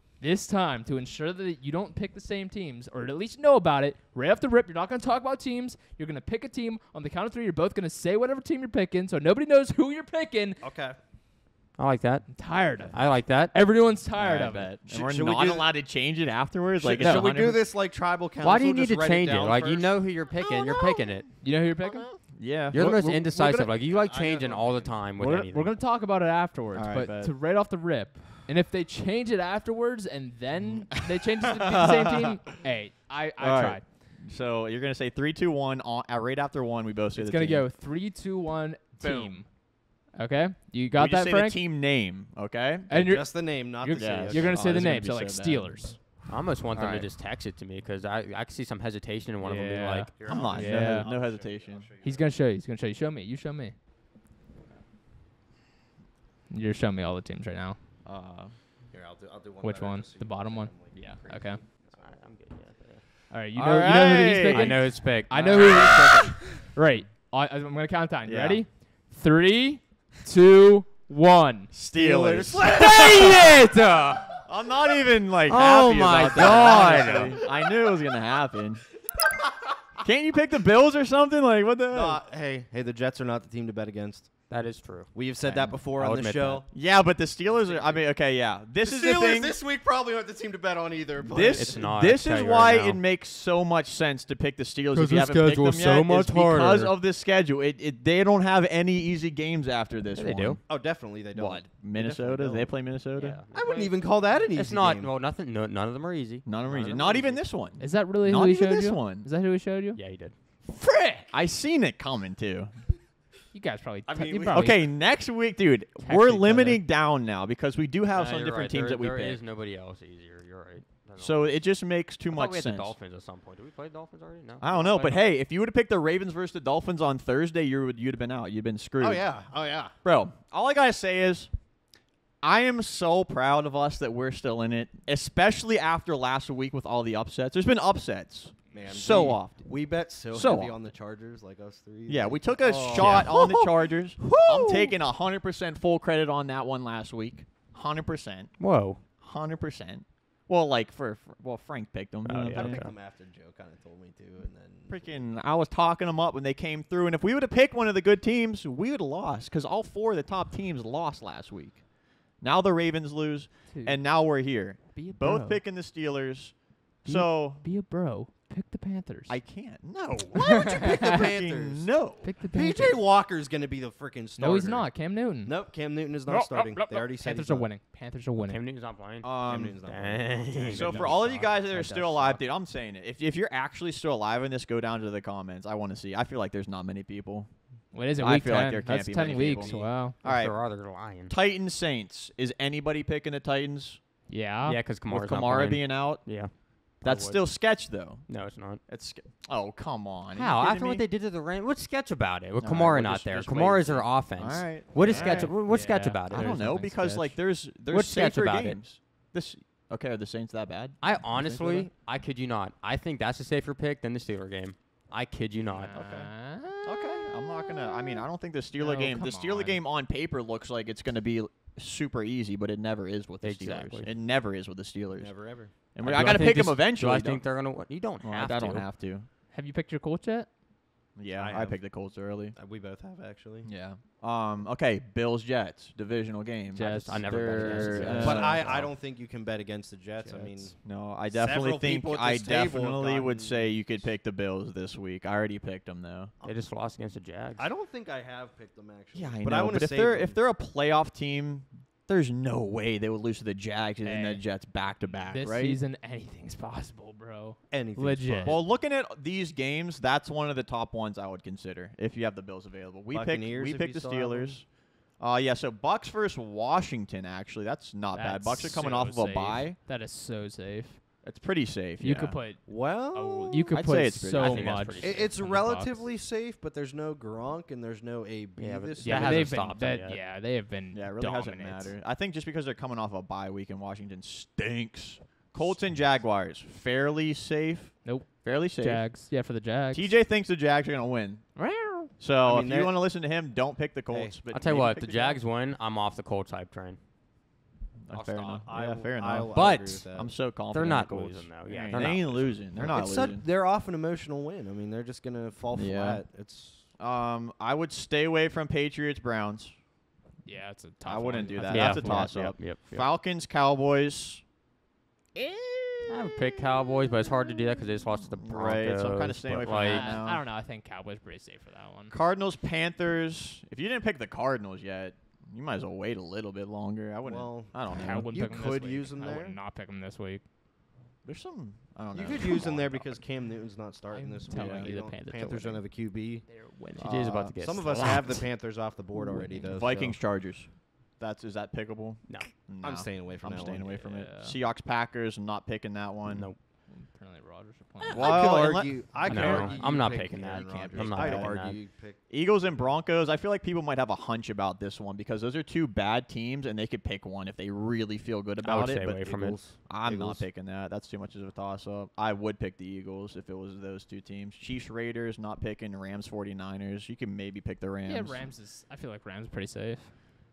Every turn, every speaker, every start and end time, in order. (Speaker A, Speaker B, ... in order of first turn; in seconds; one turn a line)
Speaker A: 0.2-10.6
Speaker B: 10.6-11.0
Speaker C: 11.8-13.5
Speaker A: 12.3-14.7
Speaker D: 14.1-17.6
Speaker B: 14.9-15.7
Speaker B: 16.8-20.0
Speaker C: 17.0-17.2
Speaker C: 18.4-21.3
Speaker D: 20.3-23.7
Speaker A: 21.4-22.1
Speaker C: 22.7-25.7
Speaker B: 23.8-25.0
Speaker A: 25.2-33.8
Speaker D: 26.7-27.3
Speaker D: 31.7-32.4
Speaker D: 33.4-37.7
Speaker A: 37.1-41.6
Speaker D: 39.0-39.4
Speaker D: 40.9-43.3
Speaker A: 42.9-46.0
Speaker B: 42.9-44.6
Speaker D: 43.9-46.0
Speaker C: 46.3-50.4
Speaker D: 46.7-47.1
Speaker A: 49.4-51.1
Speaker B: 50.2-52.3
Speaker D: 50.3-51.9
Speaker A: 52.0-53.8
Speaker A: 56.5-57.8
Speaker D: 58.0-58.6
Speaker B: 58.9-62.3
Speaker A: 59.6-61.6
Speaker D: 60.9-61.2
Speaker C: 61.9-63.0
Speaker A: 63.3-71.7
Speaker D: 63.5-66.3
Speaker C: 64.5-66.0
Speaker D: 68.2-68.7
Speaker D: 71.7-73.3
Speaker B: 72.0-73.6
Speaker C: 72.6-74.3
Speaker D: 74.4-78.8
Speaker C: 75.5-77.4
Speaker B: 76.3-77.3
Speaker D: 80.0-82.2
Speaker B: 81.9-84.5
Speaker C: 84.5-86.6
Speaker B: 85.1-86.7
Speaker D: 86.7-89.6
Speaker B: 87.5-88.0
Speaker B: 88.8-91.9
Speaker D: 91.2-100.8
Speaker C: 91.5-93.0
Speaker C: 94.9-96.9
Speaker C: 100.1-100.6
Speaker B: 100.7-102.9
Speaker D: 101.3-103.4
Speaker C: 103.1-107.4
Speaker B: 103.5-105.1
Speaker D: 106.4-109.3
Speaker A: 107.8-111.3
Speaker C: 109.9-110.3
Speaker D: 111.3-112.8
Speaker A: 113.5-114.8
Speaker D: 114.1-119.4
Speaker B: 114.1-114.5
Speaker A: 116.0-116.8
Speaker C: 118.1-121.6
Speaker D: 121.2-123.0
Speaker C: 122.3-125.2
Speaker D: 124.6-129.4
Speaker B: 129.0-129.9
Speaker D: 130.0-131.5
Speaker D: 132.4-140.9
Speaker B: 138.7-143.6
Speaker D: 142.1-152.9
Speaker C: 142.9-143.3
Speaker B: 144.6-144.8
Speaker C: 148.6-149.0
Speaker C: 152.2-152.9
Speaker B: 152.4-155.0
Speaker D: 154.9-167.6
Speaker A: 163.7-165.6
Speaker A: 167.0-169.4
Speaker D: 169.3-172.3
Speaker B: 170.7-171.9
Speaker A: 172.2-173.0
Speaker B: 172.5-177.7
Speaker A: 174.4-178.6
Speaker C: 178.4-181.2
Speaker D: 179.2-179.8
Speaker B: 179.4-181.5
Speaker D: 180.7-194.0
Speaker A: 181.2-182.4
Speaker A: 187.9-190.2
Speaker B: 189.3-189.9
Speaker C: 189.7-191.3
Speaker A: 194.3-194.8
Speaker C: 194.6-198.8
Speaker D: 195.1-201.1
Speaker C: 200.3-206.6
Speaker D: 202.6-205.7
Speaker A: 205.0-207.4
Speaker D: 206.3-211.9
Speaker C: 207.8-208.8
Speaker C: 211.0-215.9
Speaker A: 215.7-219.8
Speaker D: 215.9-227.5
Speaker C: 223.4-224.1
Speaker B: 225.1-225.7
Speaker C: 226.0-228.9
Speaker D: 228.2-229.3
Speaker A: 229.5-230.5
Speaker D: 231.1-232.6
Speaker B: 231.3-233.8
Speaker D: 233.6-238.9
Speaker A: 236.7-238.6
Speaker C: 236.7-238.9
Speaker B: 238.1-244.1
Speaker D: 240.4-246.3
Speaker C: 246.4-247.7
Speaker B: 247.6-250.4
Speaker D: 249.1-255.8
Speaker A: 254.0-254.4
Speaker A: 255.3-258.6
Speaker B: 257.7-258.7
Speaker D: 258.4-269.8
Speaker B: 263.1-264.6
Speaker A: 268.1-271.1
Speaker D: 271.2-272.4
Speaker A: 272.0-276.0
Speaker B: 272.6-273.7
Speaker D: 273.7-274.9
Speaker C: 274.3-275.4
Speaker B: 275.0-279.8
Speaker C: 278.6-280.2
Speaker A: 279.0-281.9
Speaker D: 280.9-295.4
Speaker A: 288.0-290.1
Speaker A: 291.6-292.1
Speaker B: 292.4-293.0
Speaker B: 294.1-294.4
Speaker C: 294.5-297.0
Speaker D: 298.0-303.4
Speaker C: 298.1-298.8
Speaker B: 298.6-300.4
Speaker C: 299.5-300.1
Speaker C: 300.7-302.8
Speaker A: 301.7-302.0
Speaker B: 302.7-306.9
Speaker D: 305.7-306.3
Speaker D: 307.0-309.8
Speaker A: 310.4-312.3
Speaker D: 311.0-314.5
Speaker C: 311.7-313.1
Speaker D: 315.3-320.4
Speaker C: 316.1-320.2
Speaker A: 319.6-322.1
Speaker D: 322.1-328.4
Speaker B: 327.2-329.6
Speaker A: 327.9-330.4
Speaker D: 331.2-333.1
Speaker B: 332.1-340.2
Speaker A: 334.1-337.2
Speaker D: 334.5-334.9
Speaker C: 337.0-338.4
Speaker D: 339.5-346.5
Speaker B: 342.8-343.9
Speaker A: 344.0-344.6
Speaker C: 346.2-346.6
Speaker A: 346.9-348.4
Speaker D: 348.1-368.5
Speaker B: 348.1-352.2
Speaker C: 349.2-351.8
Speaker C: 358.6-359.7
Speaker B: 359.2-360.5
Speaker A: 368.0-370.1